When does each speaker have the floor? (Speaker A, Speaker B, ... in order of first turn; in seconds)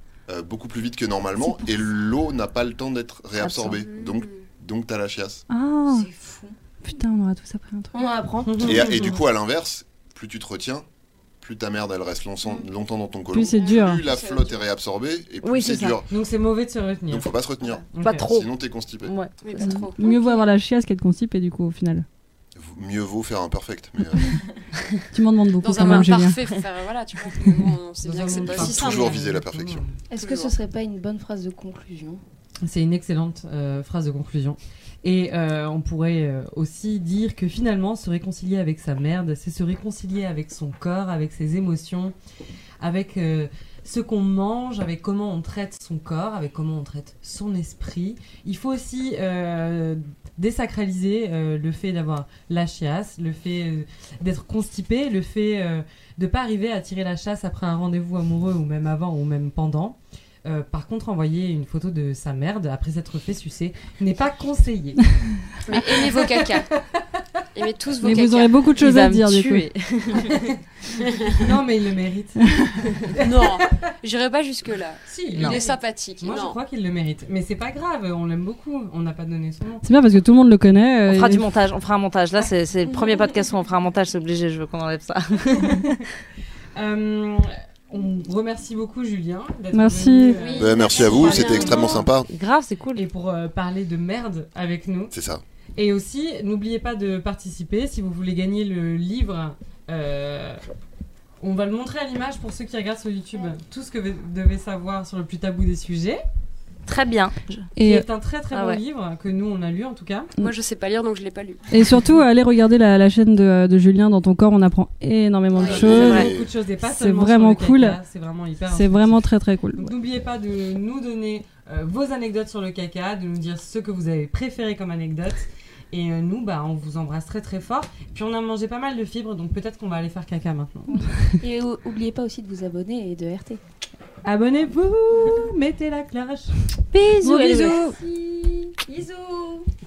Speaker A: 0.3-5.4, 8.6-10.8, 11.4-16.1, 17.1-19.1, 22.6-24.4, 28.3-29.8, 90.6-92.3, 95.1-95.4, 115.5-116.5
Speaker B: 3.4-3.8, 15.4-16.0, 18.0-18.5, 19.0-19.8, 25.7-26.1, 68.8-70.5, 75.3-75.6, 81.0-86.0, 91.6-93.0, 106.8-107.7, 108.5-108.8, 115.9-116.3, 136.9-137.8
Speaker C: 3.8-4.4, 13.5-14.6, 19.4-20.5, 25.6-29.1, 30.2-30.5, 65.7-66.7, 67.5-68.6, 71.0-71.5, 73.2-76.6, 90.3-92.1, 110.4-111.7, 115.5-115.8
Speaker D: 5.5-6.1, 6.8-8.1, 13.3-14.1, 19.6-22.1, 25.1-26.4, 68.0-69.7, 79.8-81.5, 89.7-90.6, 107.8-108.0, 111.7-118.0, 118.7-119.9, 137.2-137.9
Speaker E: 5.8-6.5, 7.9-9.1, 30.1-32.2, 130.9-133.6, 137.4-139.7
Speaker F: 8.4-9.2, 16.1-17.3, 17.9-18.3, 28.0-30.0, 32.6-42.1, 42.8-65.1, 65.7-67.2, 70.2-70.5, 71.3-73.6, 75.1-79.8, 86.8-92.1, 92.9-95.1, 95.8-100.6, 101.4-106.2, 107.8-110.3, 115.8-131.0, 134.2-136.6